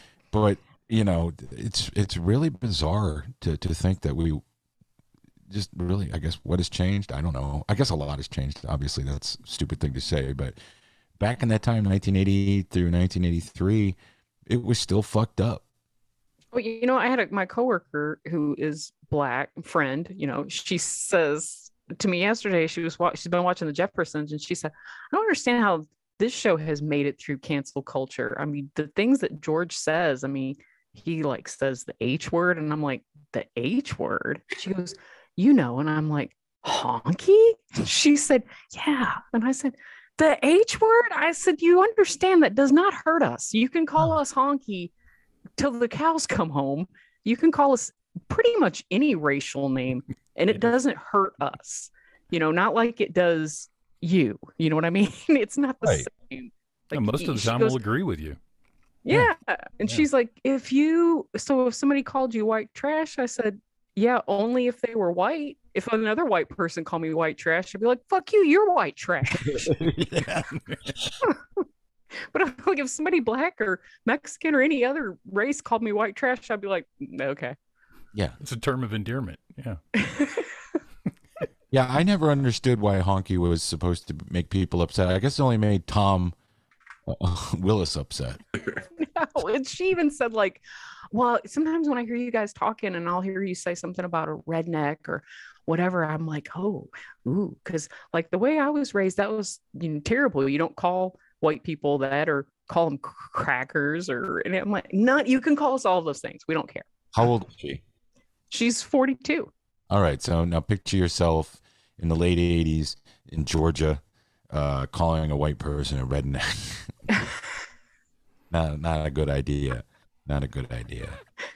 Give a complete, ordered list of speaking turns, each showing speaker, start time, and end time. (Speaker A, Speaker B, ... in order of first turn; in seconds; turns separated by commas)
Speaker A: 0.3-4.4, Speaker A: 5.5-10.6, Speaker A: 11.2-15.6, Speaker B: 16.5-44.9, Speaker B: 45.6-57.8, Speaker A: 55.8-56.1, Speaker C: 56.9-58.4, Speaker B: 59.0-69.7, Speaker A: 69.4-71.1, Speaker B: 72.3-77.5, Speaker C: 78.4-79.8, Speaker B: 80.0-80.5, Speaker A: 81.7-86.3, Speaker A: 87.1-88.4, Speaker B: 89.0-90.6, Speaker B: 91.1-106.9, Speaker A: 107.1-107.8, Speaker B: 108.5-109.5, Speaker A: 109.9-117.2, Speaker A: 118.5-121.2